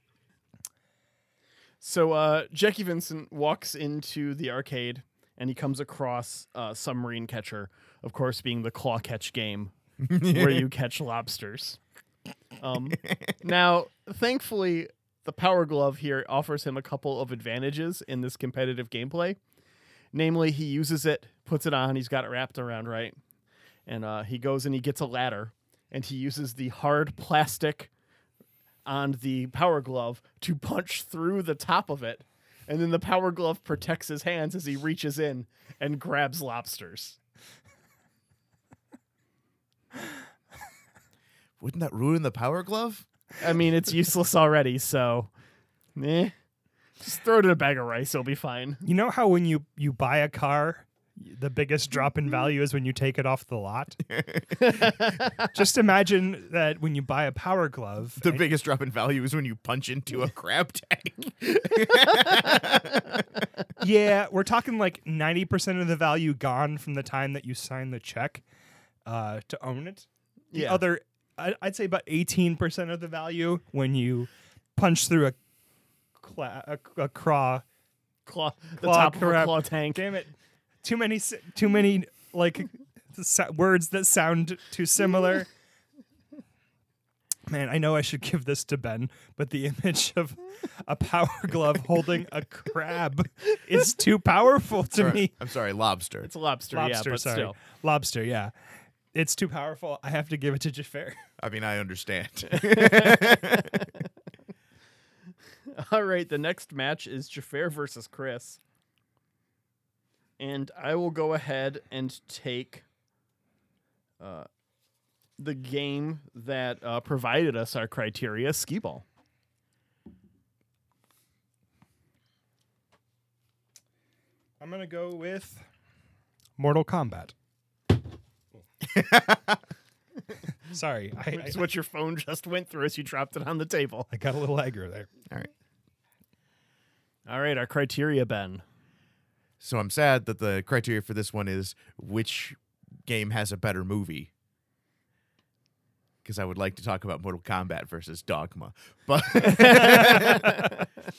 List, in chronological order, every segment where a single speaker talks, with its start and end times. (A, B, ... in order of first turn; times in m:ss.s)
0:01.8-0:11.8 A
0:10.0-0:10.6 B
0:12.6-0:19.4 A
0:13.0-0:13.3 B
0:20.1-0:23.2 A
0:23.8-0:27.9 A
0:28.8-0:37.2 A
0:41.6-0:43.0 B
0:43.4-0:45.3 A
0:46.0-0:46.3 A
0:47.0-0:48.8 A
0:48.8-0:54.0 C
0:54.1-0:54.7 B
0:54.6-0:55.3 A
0:55.5-0:58.4 C
0:58.2-1:03.2 B
1:03.8-1:08.4 C
1:09.0-1:15.4 C
1:10.5-1:10.8 A
1:16.2-1:17.6 C
1:18.2-1:20.0 A
1:18.8-1:25.5 C
1:27.5-1:35.3 C
1:34.9-1:36.3 B
1:36.2-1:37.6 A
1:36.7-1:38.5 C
1:39.1-1:41.2 C
1:41.4-1:43.9 B
1:42.5-1:43.8 A
1:45.7-1:48.6 A
1:50.4-1:52.8 A
1:54.2-1:54.5 A
1:55.4-1:59.0 A
2:04.6-2:05.6 C
2:06.6-2:07.3 C
2:08.8-2:09.6 B
2:10.7-2:11.7 C
2:11.3-2:14.1 A
2:14.1-2:15.1 C
2:17.2-2:18.6 A
2:19.6-2:24.3 B
2:26.2-2:30.7 B
2:29.4-2:30.7 A